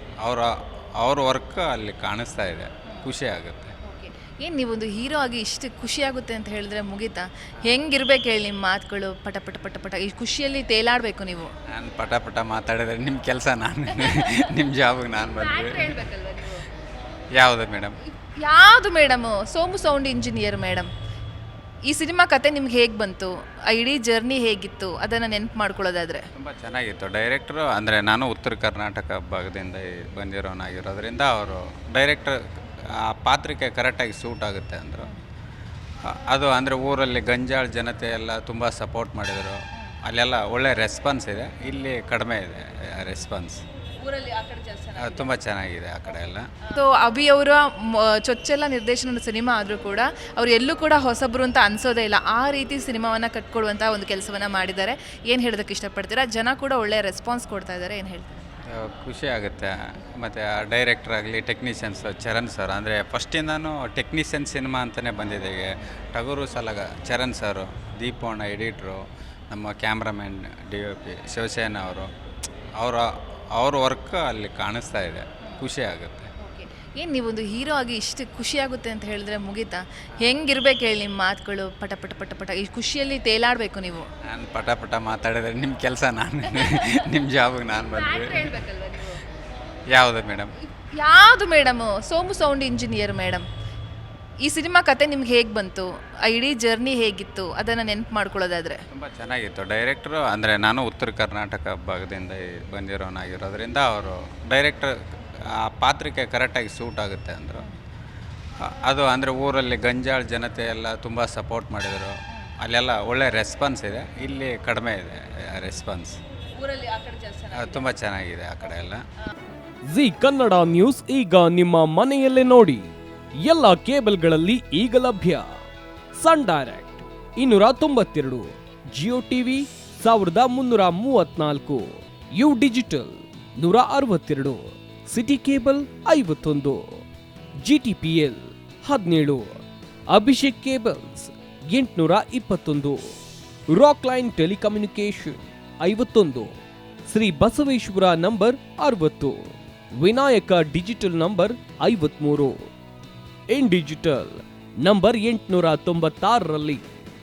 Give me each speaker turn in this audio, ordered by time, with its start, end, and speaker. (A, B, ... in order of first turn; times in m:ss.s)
0:00.2-0:03.8 A
0:03.8-0:11.5 B
0:11.7-0:16.0 A
0:15.2-0:16.6 B
0:17.4-0:18.0 A
0:18.2-0:20.9 B
0:21.9-0:26.2 B
0:26.4-0:32.4 A
0:33.1-0:35.1 A
0:36.1-0:43.6 A
0:44.0-0:45.3 B
0:45.0-0:46.5 A
0:46.7-0:58.5 B
0:58.8-1:12.1 A
1:12.8-1:16.3 A
1:16.4-1:24.1 B
1:24.3-1:28.5 A
1:26.6-1:26.9 B
1:27.8-1:29.2 B
1:29.9-1:30.5 A
1:30.8-1:33.4 B
1:34.4-1:38.8 B
1:38.9-1:44.9 A
1:45.5-1:47.6 A
1:48.7-1:56.2 A
1:56.6-1:57.8 B
1:57.5-1:59.0 A
1:59.9-2:02.9 C
2:03.4-2:05.5 C
2:06.2-2:17.0 C
2:17.6-2:19.6 C
2:20.1-2:23.1 C
2:23.7-2:26.6 C
2:27.1-2:32.7 C
2:33.5-2:36.8 C